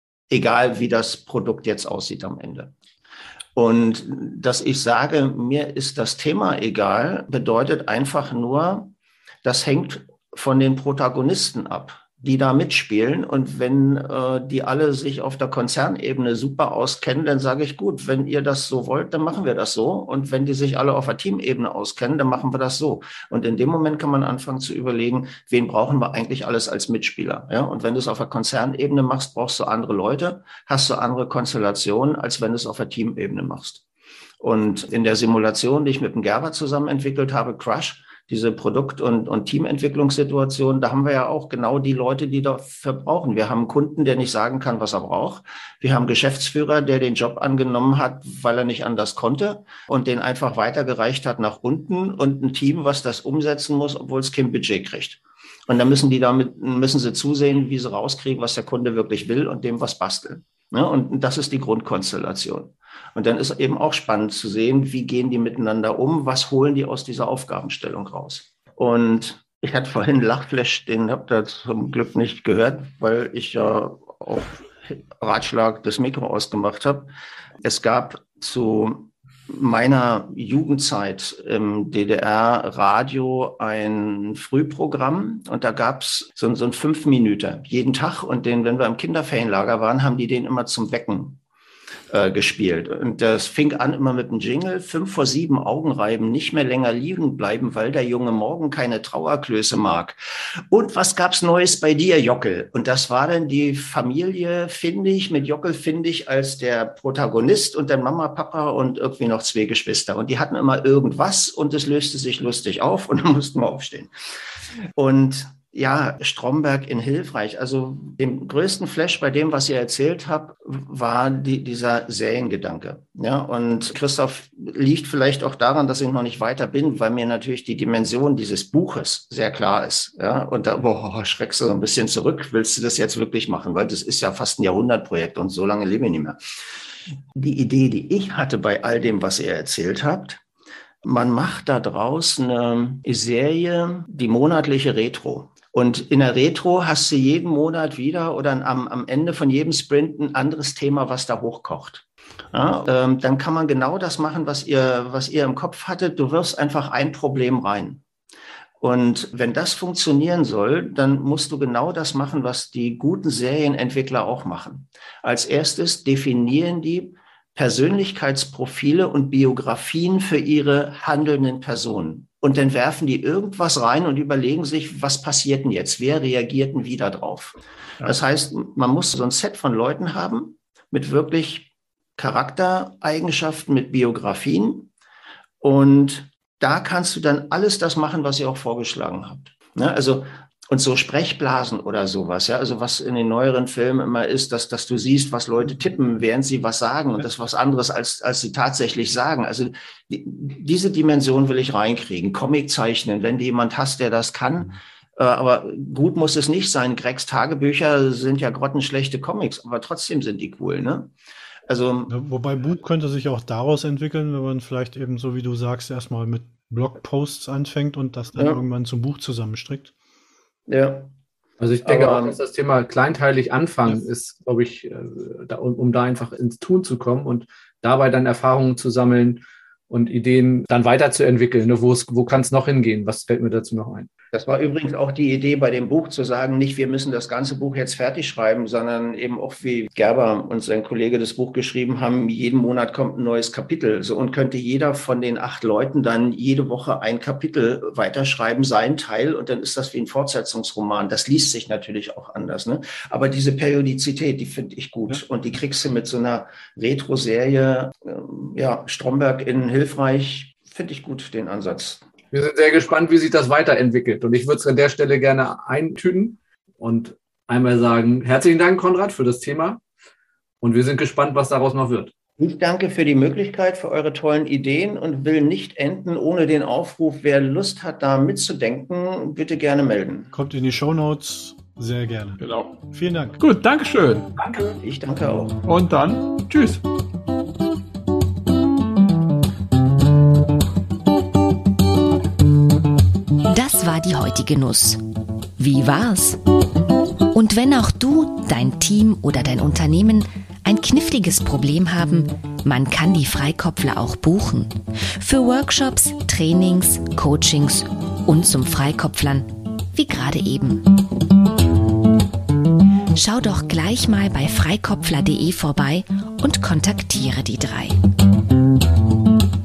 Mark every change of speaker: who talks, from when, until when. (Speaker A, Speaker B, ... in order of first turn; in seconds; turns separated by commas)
Speaker A: 0.3-2.7, Speaker A: 3.6-8.9, Speaker A: 9.4-33.8, Speaker A: 34.4-77.1, Speaker A: 77.6-91.4, Speaker A: 92.1-100.2, Speaker A: 100.7-114.1, Speaker A: 115.0-136.4, Speaker A: 137.3-140.4, Speaker A: 141.0-158.0, Speaker A: 158.8-184.9, Speaker A: 185.6-211.1, Speaker A: 211.7-212.1, Speaker B: 212.1-219.9, Speaker A: 218.4-218.6, Speaker A: 220.7-221.1, Speaker C: 221.6-234.1, Speaker A: 221.8-222.4, Speaker A: 234.3-262.0, Speaker C: 262.3-269.8, Speaker C: 270.6-272.1, Speaker A: 272.4-280.3, Speaker B: 280.3-283.4, Speaker D: 282.4-282.8, Speaker D: 283.4-284.4, Speaker C: 284.4-284.8, Speaker A: 284.8-285.6, Speaker D: 285.6-286.8, Speaker E: 293.5-295.0, Speaker E: 295.6-296.4, Speaker E: 297.3-310.9, Speaker E: 313.2-318.0